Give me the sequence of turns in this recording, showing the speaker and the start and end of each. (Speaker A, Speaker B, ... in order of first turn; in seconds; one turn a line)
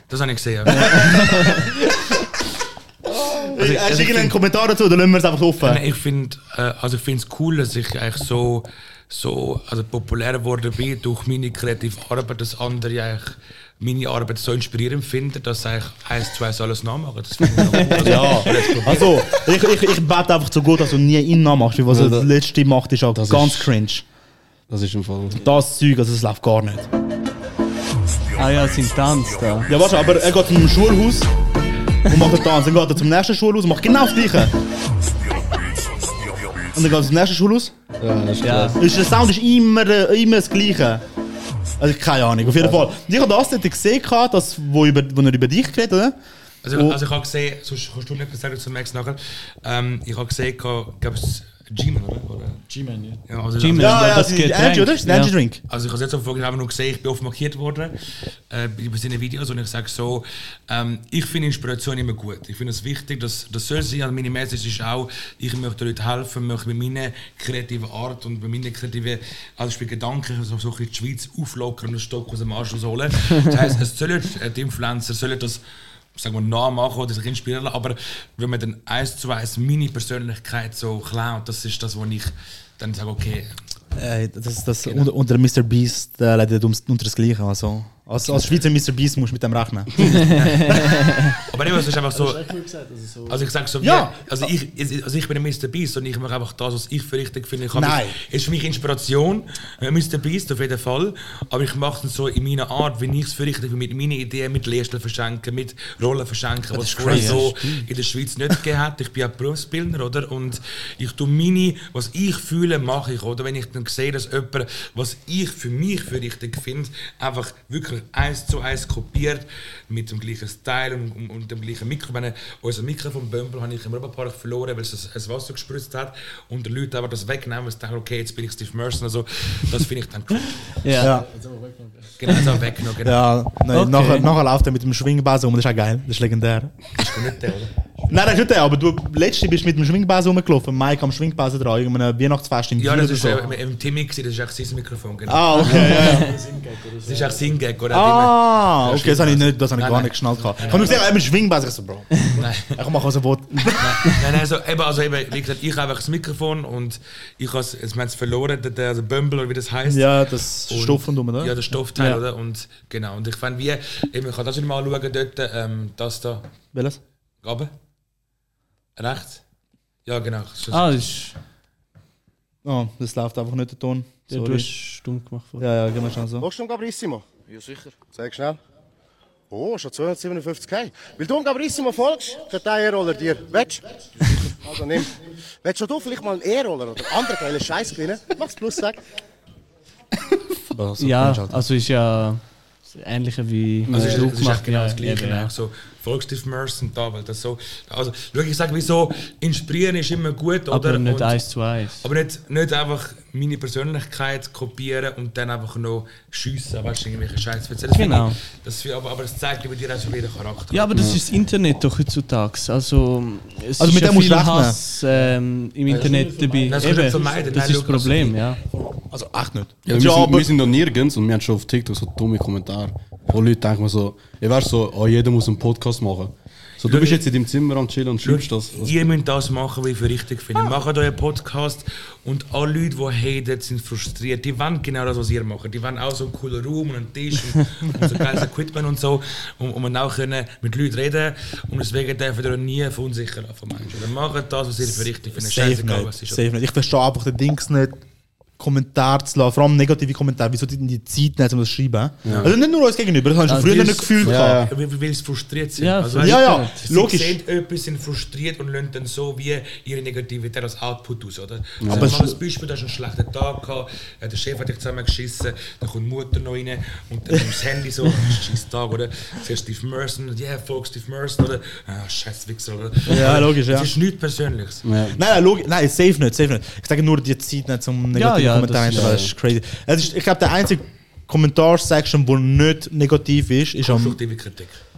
Speaker A: 0.1-1.6
Speaker B: 0.7-1.7
Speaker B: 3.1-5.8
Speaker A: 3.5-4.4
Speaker A: 5.6-19.2
Speaker C: 17.6-18.5
Speaker B: 18.0-24.0
Speaker D: 21.9-22.3
Speaker D: 23.1-23.7
Speaker D: 24.7-25.4
Speaker B: 25.4-26.9
Speaker C: 28.4-29.7
Speaker B: 29.7-31.3
Speaker B: 32.1-34.5
Speaker B: 36.7-37.7
Speaker D: 38.0-38.8
Speaker C: 38.4-38.8
Speaker B: 38.8-41.0
Speaker B: 41.8-46.1
Speaker D: 42.4-42.8
Speaker A: 46.6-52.6
Speaker B: 46.7-47.0
Speaker E: 52.6-53.2
Speaker A: 53.3-54.2
Speaker C: 53.6-55.3
Speaker B: 53.8-55.6
Speaker A: 55.7-57.9
Speaker A: 58.5-75.6
Speaker A: 76.1-83.5
Speaker B: 84.0-90.8
Speaker A: 88.2-88.7
Speaker A: 90.2-92.5
Speaker C: 90.7-91.3
Speaker E: 92.1-93.5
Speaker A: 93.3-130.7
Speaker B: 93.8-94.2
Speaker B: 97.7-98.2
Speaker B: 106.7-107.5
Speaker C: 106.8-107.8
Speaker C: 130.8-131.1
Speaker B: 131.0-131.2
Speaker E: 131.0-132.4
Speaker A: 132.2-133.3
Speaker C: 132.3-132.6
Speaker B: 133.0-136.7
Speaker C: 133.7-134.3
Speaker A: 136.9-137.7
Speaker E: 138.0-138.2
Speaker B: 138.1-143.4
Speaker A: 142.8-146.1
Speaker E: 143.4-143.7
Speaker B: 145.3-146.3
Speaker E: 145.6-147.7
Speaker C: 145.8-146.2
Speaker A: 147.0-151.0
Speaker B: 147.9-154.1
Speaker E: 150.6-151.1
Speaker A: 152.4-152.8
Speaker A: 153.8-166.5
Speaker B: 159.9-161.6
Speaker C: 161.9-162.2
Speaker B: 166.7-167.0
Speaker A: 167.4-167.7
Speaker A: 168.9-169.4
Speaker A: 170.1-171.0
Speaker C: 170.7-171.4
Speaker B: 172.6-174.7
Speaker C: 174.3-175.7
Speaker B: 175.6-176.5
Speaker F: 176.4-177.2
Speaker F: 178.1-178.6
Speaker F: 179.5-183.8
Speaker F: 184.3-185.1
Speaker F: 185.6-189.0
Speaker B: 190.7-191.5
Speaker C: 191.0-195.5
Speaker D: 193.9-194.4
Speaker A: 193.9-201.5
Speaker C: 200.7-202.1
Speaker A: 202.0-210.9
Speaker C: 207.9-208.4
Speaker C: 210.7-218.6
Speaker D: 210.9-211.2
Speaker B: 213.8-214.8
Speaker E: 215.1-217.8
Speaker A: 216.7-218.4
Speaker B: 219.1-220.5
Speaker D: 219.8-229.1
Speaker A: 226.8-227.3
Speaker A: 228.2-246.4
Speaker B: 244.8-248.0
Speaker B: 248.6-254.6
Speaker D: 252.2-252.5
Speaker A: 252.3-252.5
Speaker C: 253.5-253.9
Speaker A: 253.7-274.8
Speaker D: 254.2-254.7
Speaker C: 255.8-256.8
Speaker B: 256.2-257.4
Speaker D: 261.8-262.2
Speaker B: 261.9-262.4
Speaker B: 268.1-268.4
Speaker B: 273.1-273.9
Speaker D: 274.8-275.2
Speaker B: 275.1-284.2
Speaker C: 278.1-279.2
Speaker D: 278.9-279.3
Speaker A: 283.8-284.8